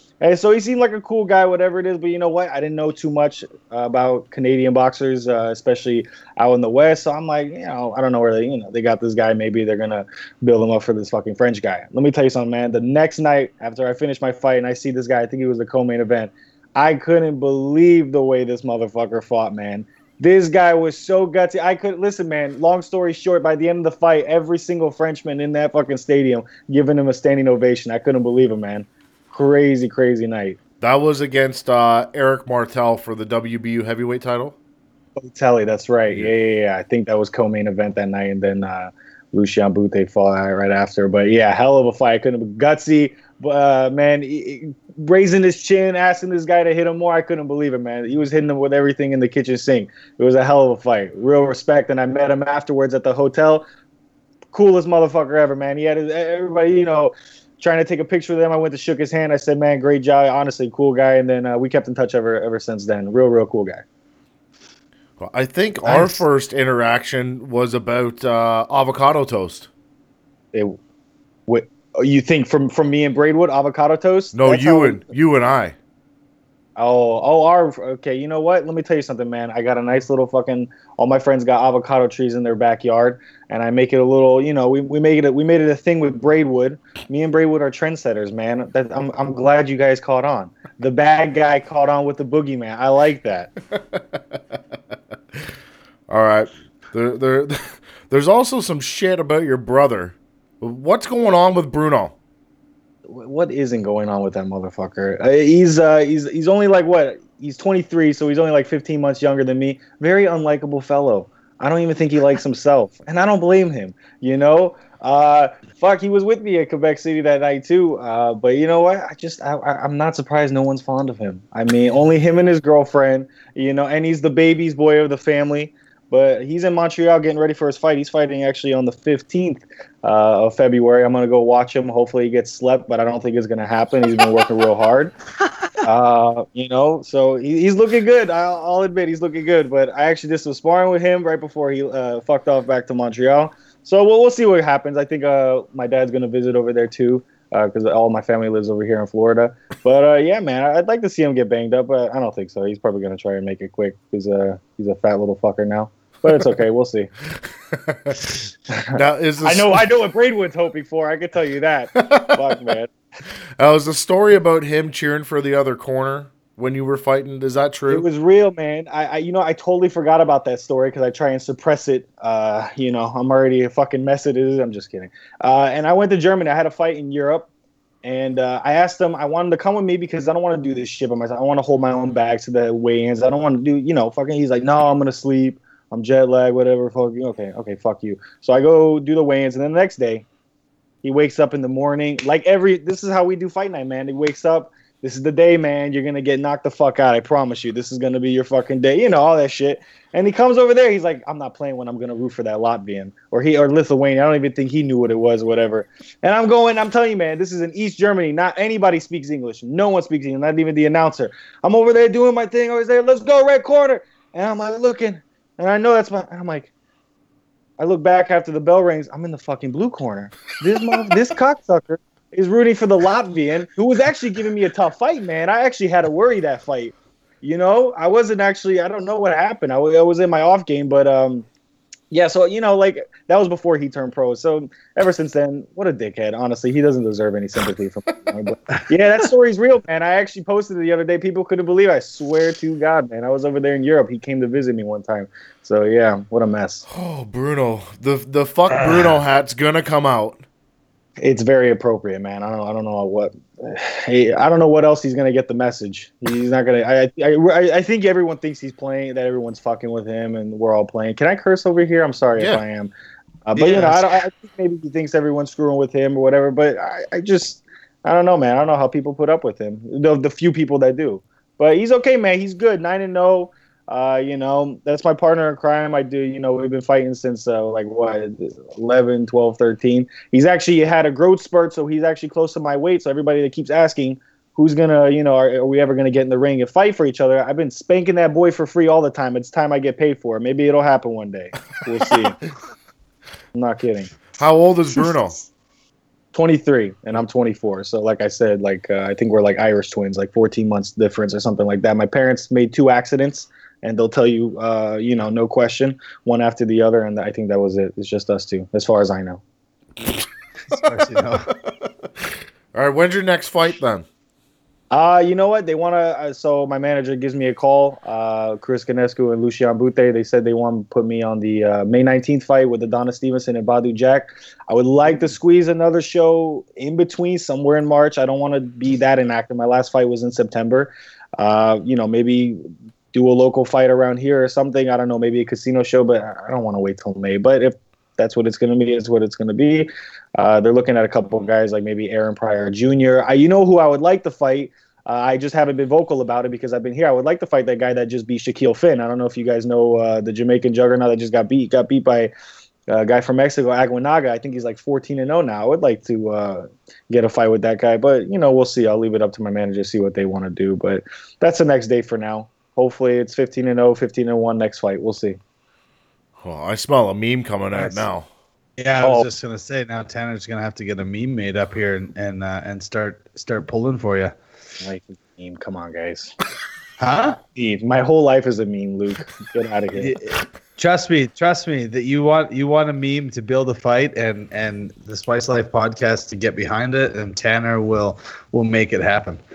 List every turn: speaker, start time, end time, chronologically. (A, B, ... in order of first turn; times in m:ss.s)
0:00.2-0:30.6 A
0:30.8-0:34.6 B
0:35.2-0:53.6 A
0:54.5-1:03.8 A
1:05.2-1:09.7 B
1:11.5-1:15.0 A
1:14.3-1:15.7 B
1:16.8-1:33.5 A
1:36.1-1:42.1 B
1:43.1-2:15.1 A
2:15.8-2:37.1 A
2:37.7-2:38.1 B
2:38.7-2:42.9 A
2:38.9-2:39.8 B
2:42.0-2:42.4 B
2:43.6-2:48.0 B
2:47.9-2:57.5 A
2:58.0-3:10.2 A
3:11.0-3:36.7 A
3:37.8-3:51.5 A
3:52.1-4:06.9 A
4:06.9-4:10.4 B
4:08.7-4:09.0 C
4:11.2-4:22.9 A
4:23.4-4:52.4 A
4:23.5-4:24.2 C
4:53.5-4:54.1 A
4:54.4-4:55.4 B
4:56.3-5:09.4 A
5:10.7-5:11.5 C
5:12.7-5:14.0 B
5:14.9-5:52.3 A
5:52.9-6:05.4 A
6:06.4-6:08.3 B
6:07.7-6:08.0 C
6:08.8-6:14.3 C
6:09.0-6:09.3 A
6:14.8-6:16.3 A
6:17.0-6:17.4 C
6:17.5-6:20.2 A
6:19.9-6:29.4 C